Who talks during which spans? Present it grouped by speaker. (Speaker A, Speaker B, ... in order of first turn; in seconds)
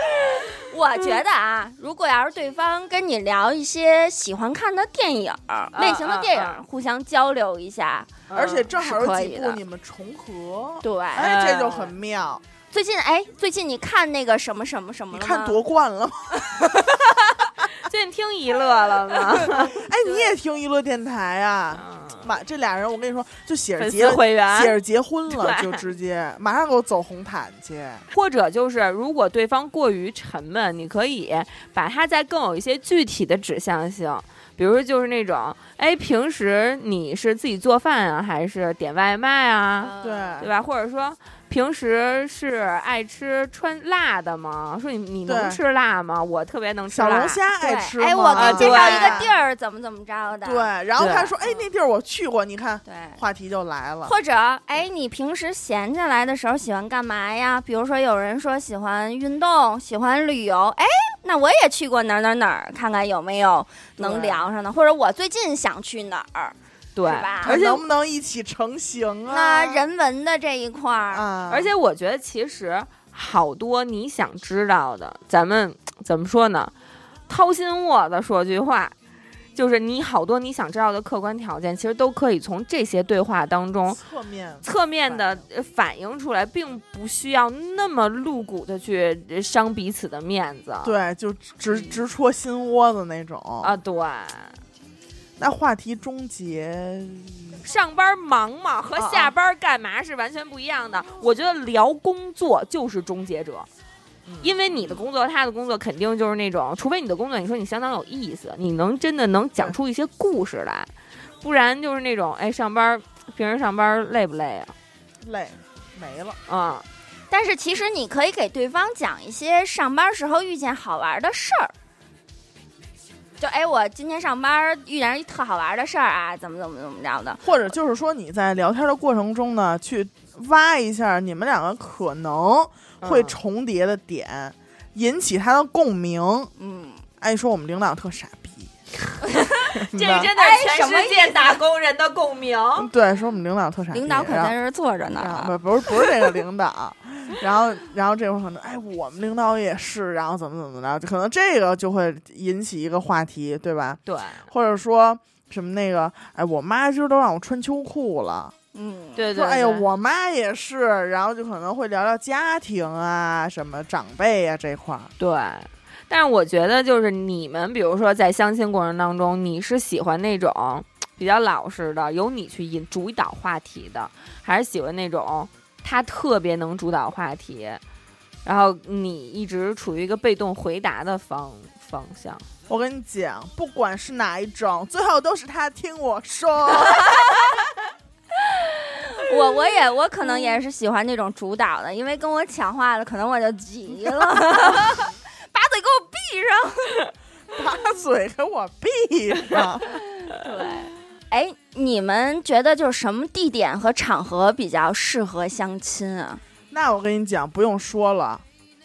Speaker A: 0.6-8.2, 8.8-9.6, 10.8-11.3, 12.7-15.6, 19.5-20.3, 39.8-40.4, 47.6-50.7, 52.9-53.2, 54.0-67.6, 69.3-71.3, 117.3-121.7, 123.4-127.4, 136.6-137.0, 140.4-141.6, 143.9-145.6, 158.7-159.3, 188.5-197.0, 200.3-206.4
Speaker B: 5.7-6.6, 8.3-8.7, 11.2-12.0, 17.8-19.8, 21.7-22.3, 23.8-24.8, 25.3-25.8, 28.1-47.4, 48.3-49.3, 51.0-51.3, 67.0-67.8, 71.5-76.7, 77.3-79.0, 79.5-84.0, 84.6-90.9, 93.6-94.6, 97.6-103.7, 104.4-110.9, 111.4-114.7, 116.5-116.8, 133.0-133.3, 139.5-142.9, 154.1-154.5, 159.2-159.9, 165.2-177.8, 178.4-182.4
Speaker C: 8.3-12.4, 15.1-17.0, 19.4-28.1, 40.0-40.5, 45.3-45.6, 46.9-49.3, 50.4-54.1, 67.4-69.8, 71.1-71.7, 83.9-85.4, 90.8-93.8, 95.4-97.6, 104.2-105.0, 115.2-116.4, 127.4-136.5, 137.2-138.7, 139.8-140.3, 142.8-144.5, 145.2-158.5, 159.3-165.1, 182.7-187.6, 197.5-199.9, 206.7-208.4